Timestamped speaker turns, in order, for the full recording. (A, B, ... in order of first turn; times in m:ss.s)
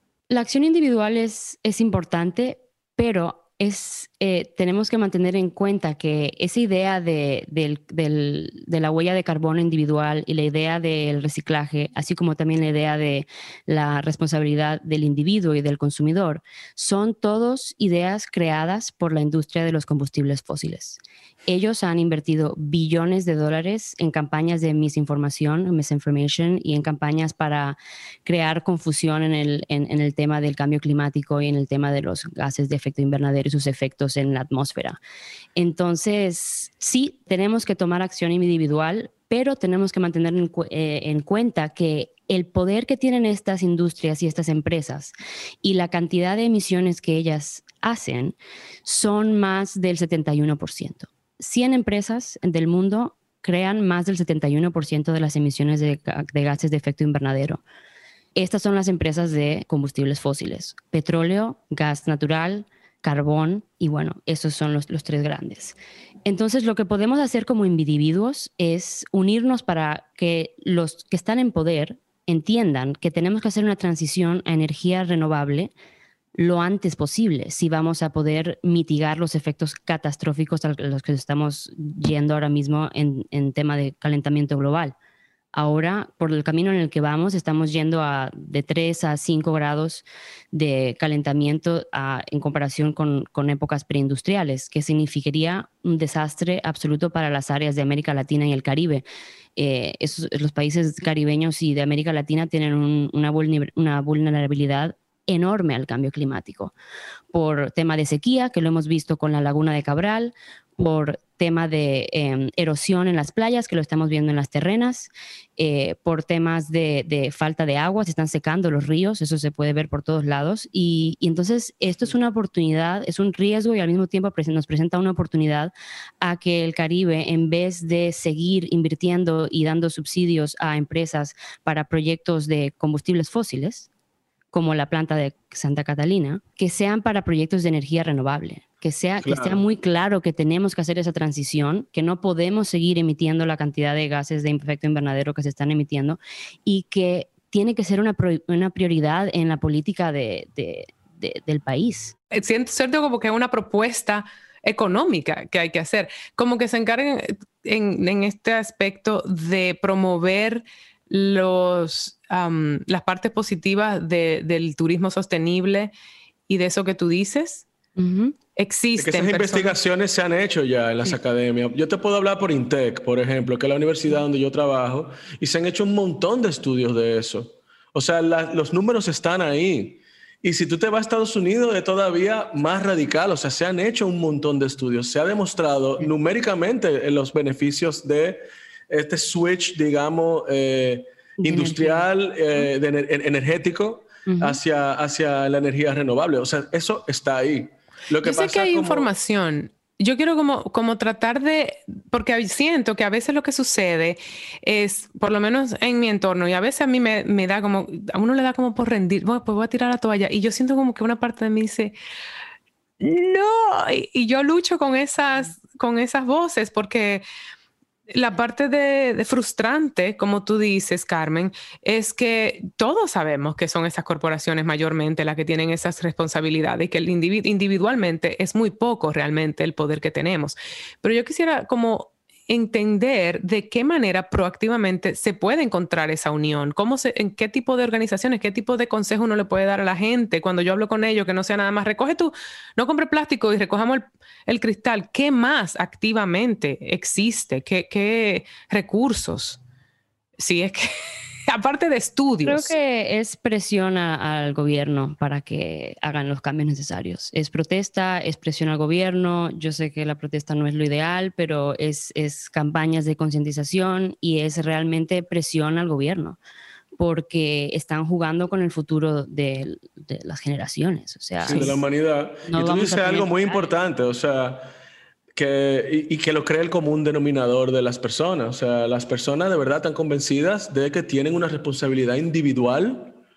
0:00.3-0:35.0 A
0:35.6-0:57.6 A
0:58.4-1:15.7 A
1:16.4-1:24.9 A
1:25.5-1:39.0 A
1:39.6-1:46.7 A
1:47.3-2:13.9 A
2:14.5-2:32.1 A
2:19.2-2:19.6 B
2:32.3-2:45.9 C
2:46.5-2:47.7 C
2:48.0-2:48.4 A
2:48.6-2:49.8 C
2:49.0-3:19.1 B
3:11.4-3:12.0 A
3:14.3-3:14.6 A
3:18.2-3:31.9 C
3:33.0-3:37.2 C
3:38.1-4:09.6 C
4:10.4-4:12.7 C
4:12.4-4:26.4 A
4:27.0-4:31.8 A
4:31.4-4:34.7 B
4:31.5-4:31.8 C
4:32.5-4:33.7 A
4:35.4-4:43.2 B